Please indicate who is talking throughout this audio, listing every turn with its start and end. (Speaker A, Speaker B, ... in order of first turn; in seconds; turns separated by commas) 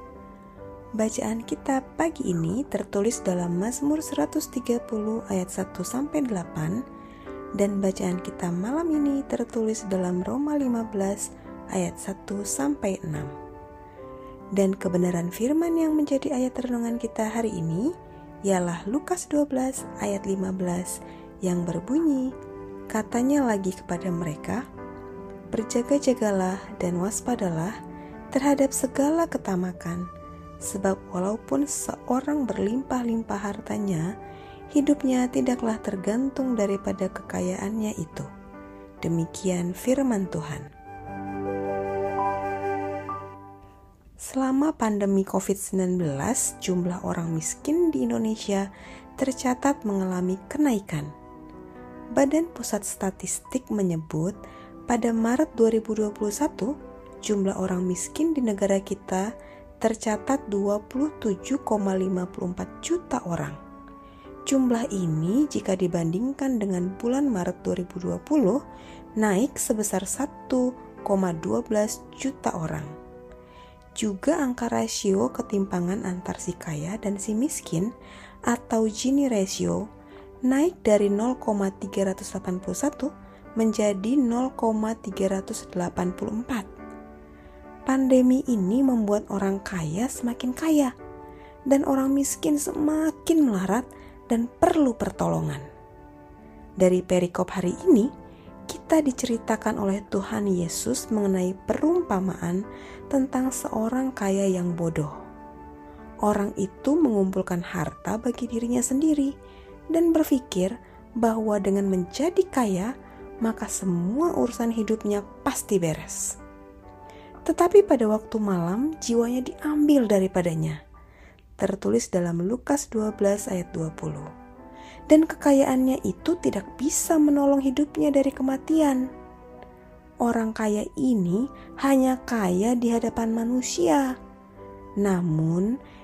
Speaker A: 1.0-6.8, Speaker A: 7.6-13.3, Speaker A: 14.6-17.9, Speaker A: 18.5-22.3, Speaker A: 22.9-24.6, Speaker A: 25.5-27.8, Speaker A: 28.3-30.1, Speaker A: 30.7-34.1, Speaker A: 34.7-38.3, Speaker A: 39.0-40.7, Speaker A: 44.3-51.1, Speaker A: 52.2-54.4, Speaker A: 54.9-56.7, Speaker A: 57.2-59.3, Speaker A: 59.8-63.6, Speaker A: 64.5-68.6, Speaker A: 69.2-72.9, Speaker A: 74.0-77.9, Speaker A: 78.5-79.8, Speaker A: 80.5-86.7, Speaker A: 87.9-90.9, Speaker A: 91.7-95.7, Speaker A: 96.8-98.1, Speaker A: 98.7-105.2, Speaker A: 106.3-109.3, Speaker A: 109.9-112.9, Speaker A: 113.4-116.3, Speaker A: 117.5-120.8, Speaker A: 121.6-124.3, Speaker A: 125.1-129.1, Speaker A: 130.2-134.1, Speaker A: 135.0-135.7